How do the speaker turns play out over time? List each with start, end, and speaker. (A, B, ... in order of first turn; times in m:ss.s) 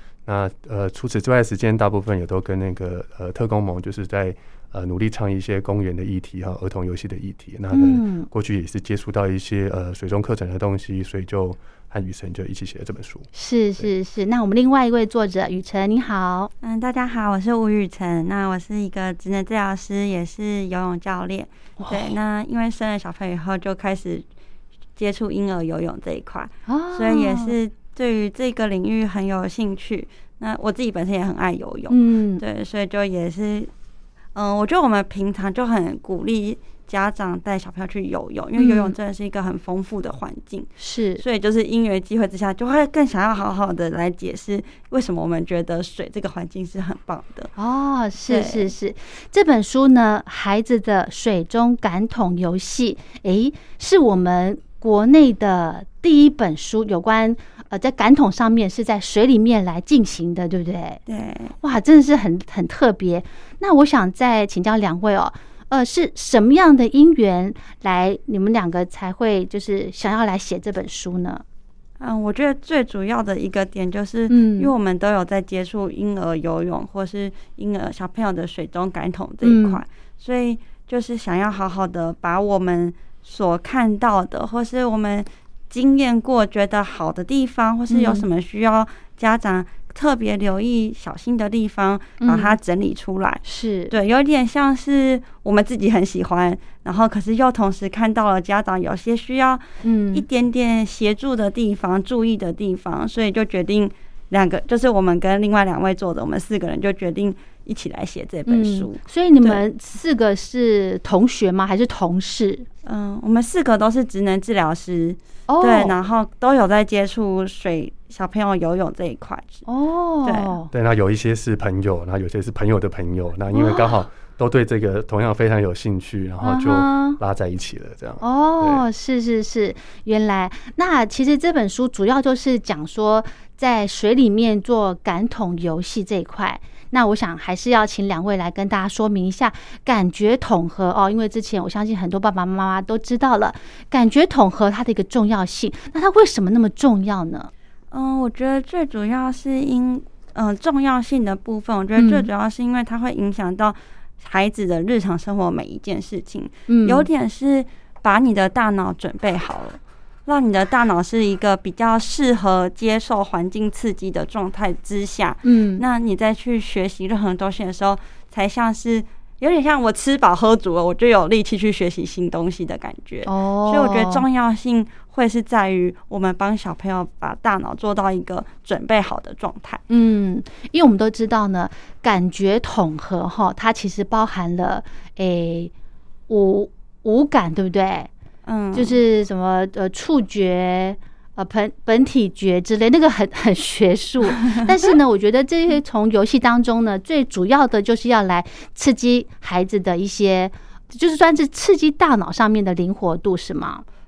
0:00.2-0:13.3 A
0:07.7-0:08.3 B
0:13.3-0:16.5 B
0:16.6-0:24.2 C
0:21.8-0:22.1 B
0:25.0-0:33.7 C
0:26.7-0:27.5 B
0:31.9-0:32.4 B
0:34.3-0:47.5 C
0:38.6-0:38.9 B
0:40.8-0:41.2 B
0:47.6-1:01.0 B
0:48.3-0:48.7 C
1:01.1-1:01.5 C
1:01.6-1:11.4 B
1:12.0-1:49.6 C
1:14.3-1:14.7 B
1:19.4-1:19.8 B
1:27.9-1:28.2 B
1:32.2-1:32.6 B
1:33.4-1:33.9 B
1:39.8-1:40.2 B
1:48.5-1:52.6 B
1:52.8-1:59.6 C
1:55.5-1:55.9 B
1:59.7-2:00.7 B
2:00.2-2:00.5 C
2:00.7-2:08.8 A
2:03.5-2:03.9 B
2:06.4-2:07.2 B
2:08.2-2:27.5 B
2:27.9-2:59.8 C
2:32.0-2:32.3 B
2:36.7-2:37.0 B
2:45.4-2:45.8 B
2:53.2-2:54.2 B
2:59.9-3:05.7 B
3:06.3-3:08.1 B
3:08.4-3:09.0 C
3:08.7-3:23.8 B